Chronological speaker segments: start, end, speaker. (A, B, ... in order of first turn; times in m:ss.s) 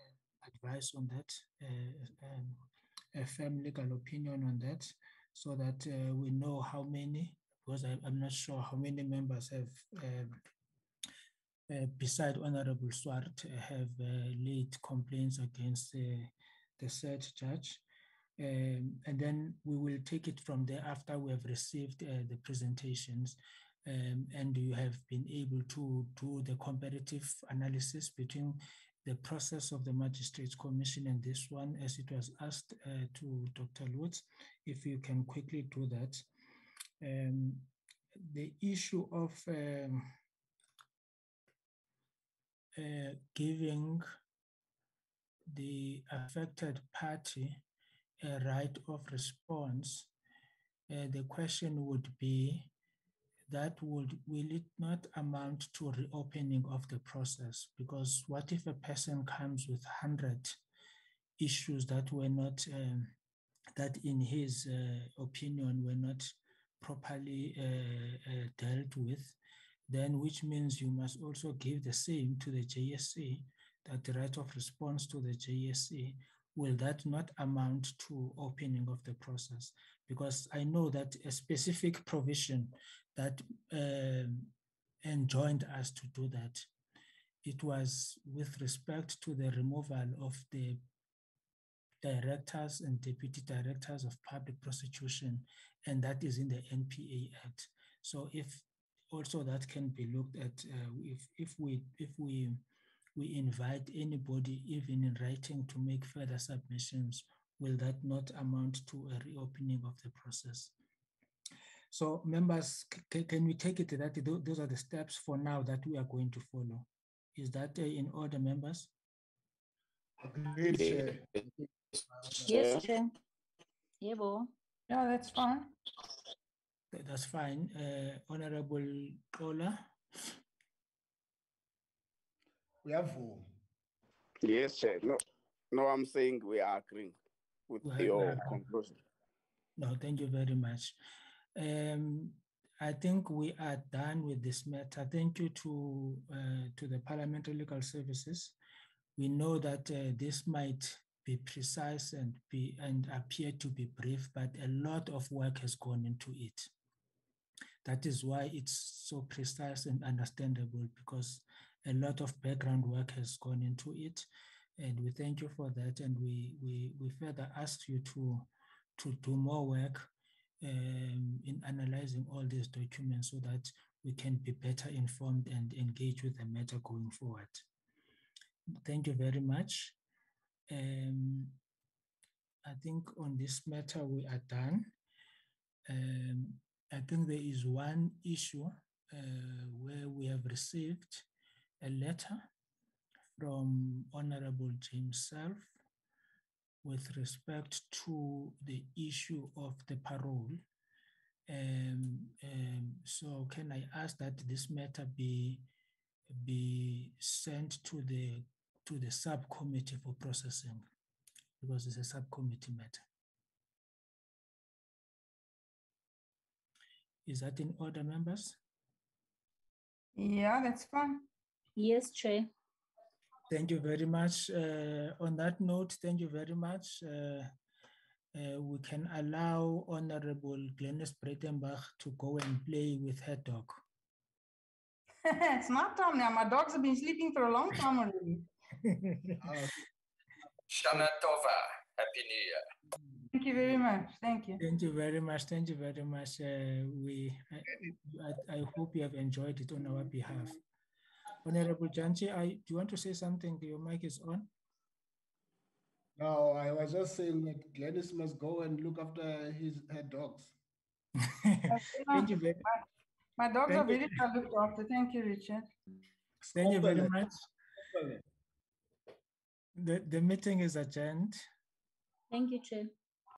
0:00.4-0:10.4 A
0:11.7-0:17.8 A
0:18.4-0:36.2 A
0:37.0-0:40.1 A
0:42.8-0:44.1 A
0:45.5-0:47.6 A
0:48.2-0:50.1 A
0:50.9-0:52.7 A
0:53.5-1:00.6 A
1:01.4-1:03.1 A
1:03.8-1:09.4 A
1:09.9-1:26.7 A
1:27.4-1:30.8 A
1:32.0-1:42.6 A
1:43.2-1:50.7 A
1:51.9-1:58.9 A
2:00.2-2:02.6 B
2:00.7-2:01.4 C
2:02.4-2:03.2 D
2:02.5-2:02.8 C
2:04.0-2:04.5 D
2:04.9-2:05.8 E
2:06.9-2:09.9 A
2:12.8-2:13.5 B
2:14.4-2:17.2 C
2:17.7-2:19.0 C
2:17.8-2:18.6 A
2:19.8-2:21.0 A
2:21.6-2:28.6 A
2:29.2-2:36.7 A
2:37.8-2:44.3 A
2:44.8-2:50.1 A
2:50.6-2:57.6 A
2:58.8-3:00.0 A
3:00.7-3:01.6 A
3:02.6-3:04.9 A
3:05.9-3:11.3 A
3:11.8-3:12.5 A
3:13.4-3:15.7 A
3:16.8-3:20.6 A
3:21.5-3:25.7 A
3:26.3-3:30.8 A
3:31.6-3:33.0 A
3:37.3-3:38.6 A
3:40.2-3:41.3 E
3:41.8-3:42.5 D
3:43.5-3:47.5 A
3:48.3-3:53.8 A
3:55.3-3:58.5 E
3:58.8-3:59.4 A
3:59.4-3:59.8 B
4:00.7-4:02.6 F
4:03.3-4:04.6 E
4:04.6-4:10.6 A
4:11.4-4:14.5 A
4:16.2-4:20.6 B
4:21.3-4:22.6 A
4:21.7-4:22.9 E
4:23.4-4:25.7 E
4:23.7-4:24.1 A
4:26.5-4:27.5 A
4:26.6-4:27.3 B
4:27.9-4:28.2 B
4:29.8-4:31.4 A
4:32.3-4:32.9 D